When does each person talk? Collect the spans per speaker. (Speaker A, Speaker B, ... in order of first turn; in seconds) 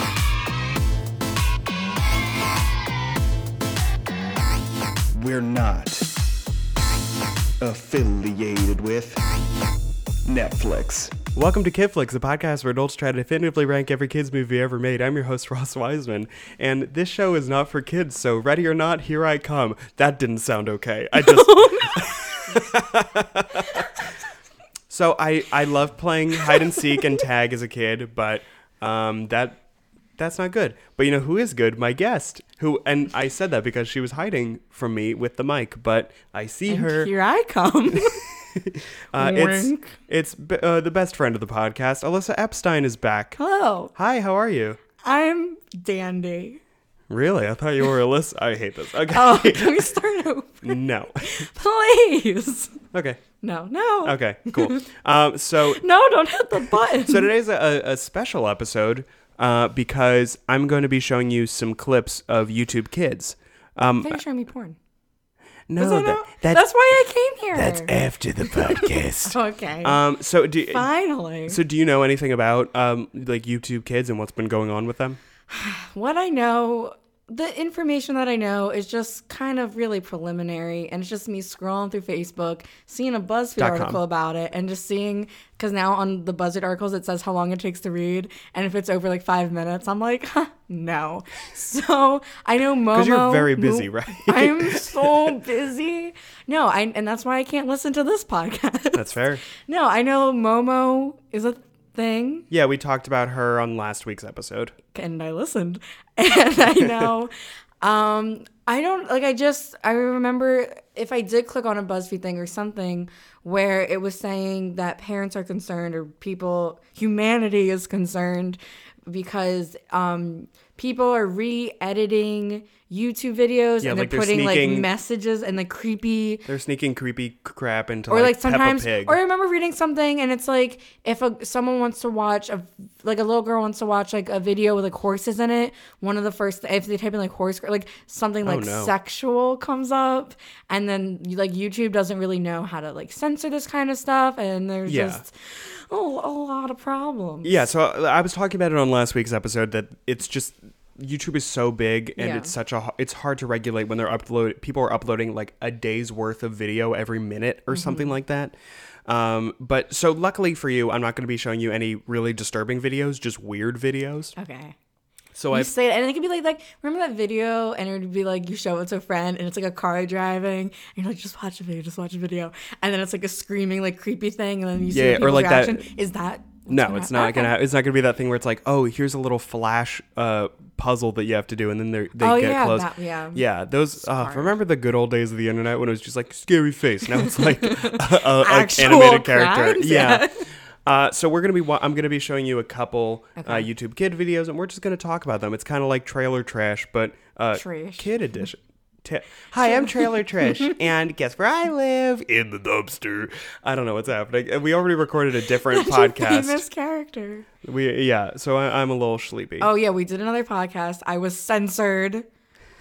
Speaker A: 5.1-6.0, 7.6-9.2, 10.2-11.1
Speaker B: 11.1-23.9, 24.9-29.6, 30.2-37.1, 38.1-43.4, 43.9-44.8, 47.1-49.9, 50.6-51.4, 52.9-53.2, 54.0-55.8, 56.9-64.2, 65.7-66.7, 67.5-70.9, 71.5-75.2, 83.6-84.0, 92.9-95.3, 98.9-99.4, 102.5-104.7, 106.7-107.1, 123.8-124.9, 126.5-129.2, 138.4-138.9, 144.8-145.2, 147.4-158.5, 159.1-164.3, 165.3-165.7, 174.9-175.8, 176.7-206.6, 207.6-209.7
Speaker C: 21.1-22.6, 26.5-26.8, 36.7-38.2, 39.1-40.0, 43.4-43.9, 45.0-46.6, 49.1-52.8, 53.4-54.8, 55.6-57.3, 64.0-64.8, 65.8-70.0, 70.7-71.6, 75.5-102.5, 104.9-126.5, 128.1-147.6, 152.2-152.5, 157.7-158.1, 164.3-164.7, 165.5-177.5, 182.2-183.4, 184.0-184.5, 187.1-190.4, 193.4-193.7, 197.5-198.1, 199.6-200.8, 205.5-207.5, 209.6-212.2